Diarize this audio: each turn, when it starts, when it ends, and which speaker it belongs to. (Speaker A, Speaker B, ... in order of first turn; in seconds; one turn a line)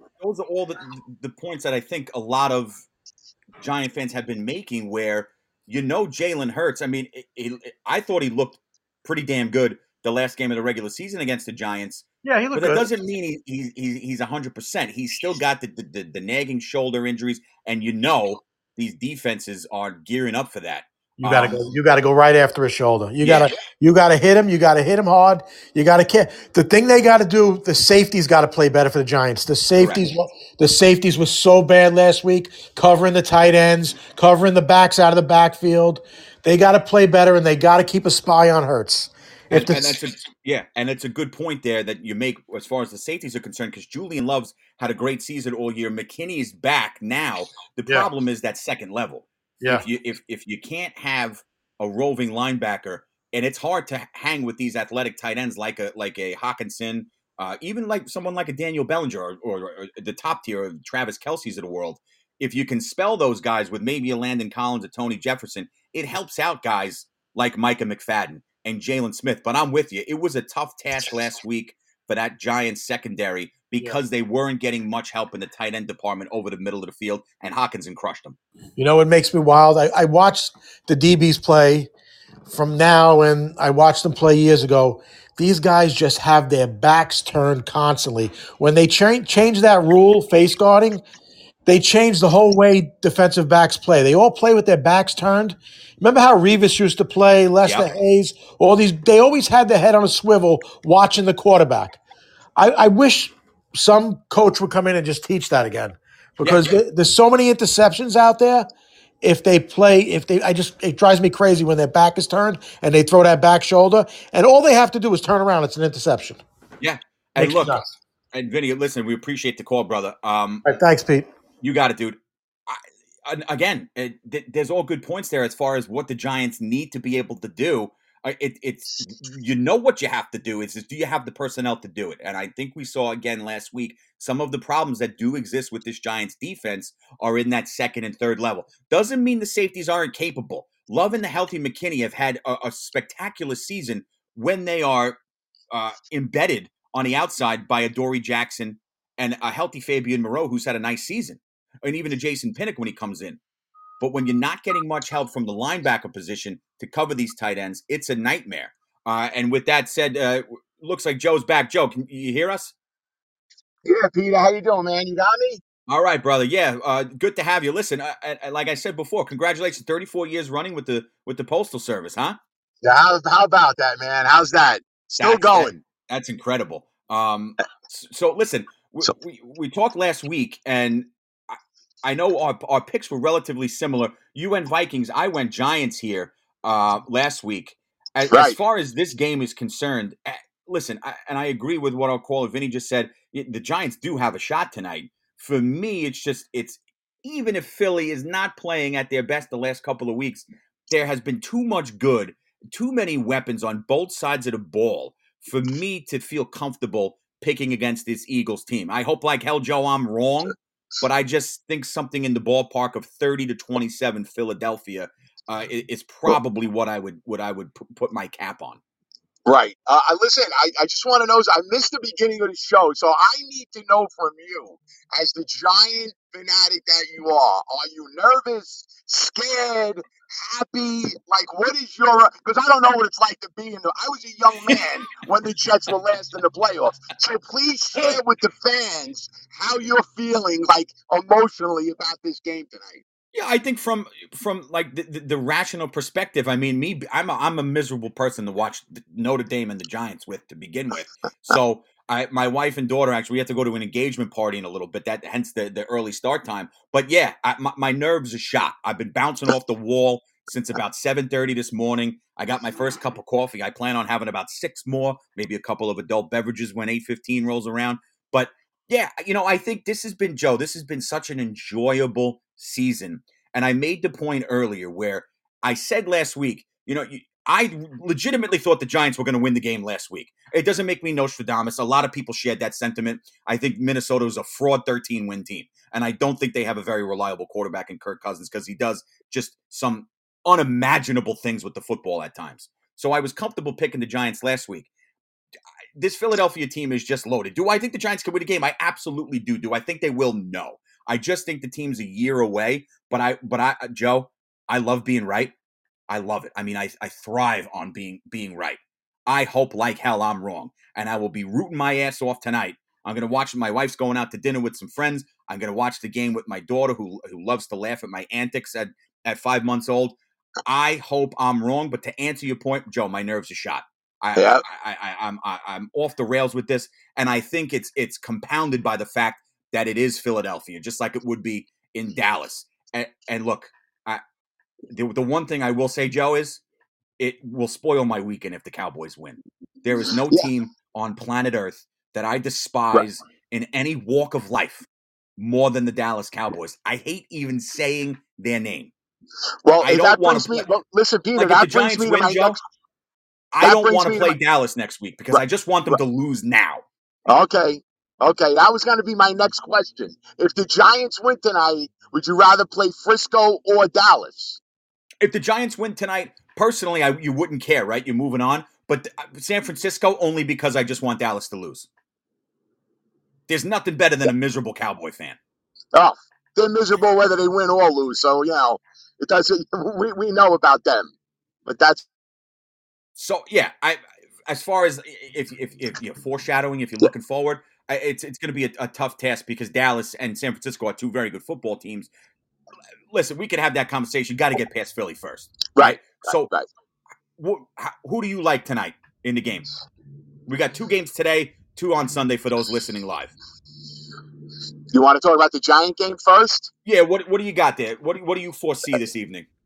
Speaker A: 0.2-2.8
Speaker A: 3.6-21.7
Speaker B: 12.2-12.8
Speaker B: 21.2-40.0
Speaker A: 23.2-23.5
Speaker A: 29.8-30.1
Speaker A: 39.5-78.4
Speaker B: 78.8-81.9
Speaker B: 82.5-91.0
Speaker B: 91.7-102.0
Speaker A: 97.6-97.9
Speaker B: 102.6-108.7
Speaker A: 106.4-106.8
Speaker B: 109.2-116.4
Speaker A: 116.8-120.7
Speaker B: 117.4-117.9
Speaker B: 120.6-121.3
Speaker A: 121.6-145.2
Speaker A: 145.7-153.4
Speaker A: 154.0-162.7
Speaker C: 163.8-165.6
Speaker A: 165.9-172.4
Speaker C: 172.8-175.8
Speaker A: 175.2-218.8
Speaker C: 188.3-188.6
Speaker C: 219.4-243.0
Speaker A: 243.3-294.9
Speaker A: 296.0-305.5
Speaker A: 306.1-334.2
Speaker C: 324.3-324.6
Speaker A: 334.9-336.6
Speaker A: 337.2-344.9
Speaker A: 345.4-348.9
Speaker C: 349.6-352.6
Speaker A: 349.8-350.6
Speaker A: 351.4-352.6
Speaker A: 353.5-356.8
Speaker C: 353.6-354.4
Speaker C: 355.3-355.9
Speaker C: 357.3-364.6
Speaker A: 365.2-371.9
Speaker A: 373.5-375.4
Speaker C: 375.9-381.1
Speaker C: 381.6-382.0
Speaker A: 383.1-392.1
Speaker A: 393.1-396.5
Speaker C: 395.8-396.7
Speaker A: 397.4-399.7
Speaker A: 400.5-403.3
Speaker C: 404.9-406.7
Speaker A: 406.8-409.5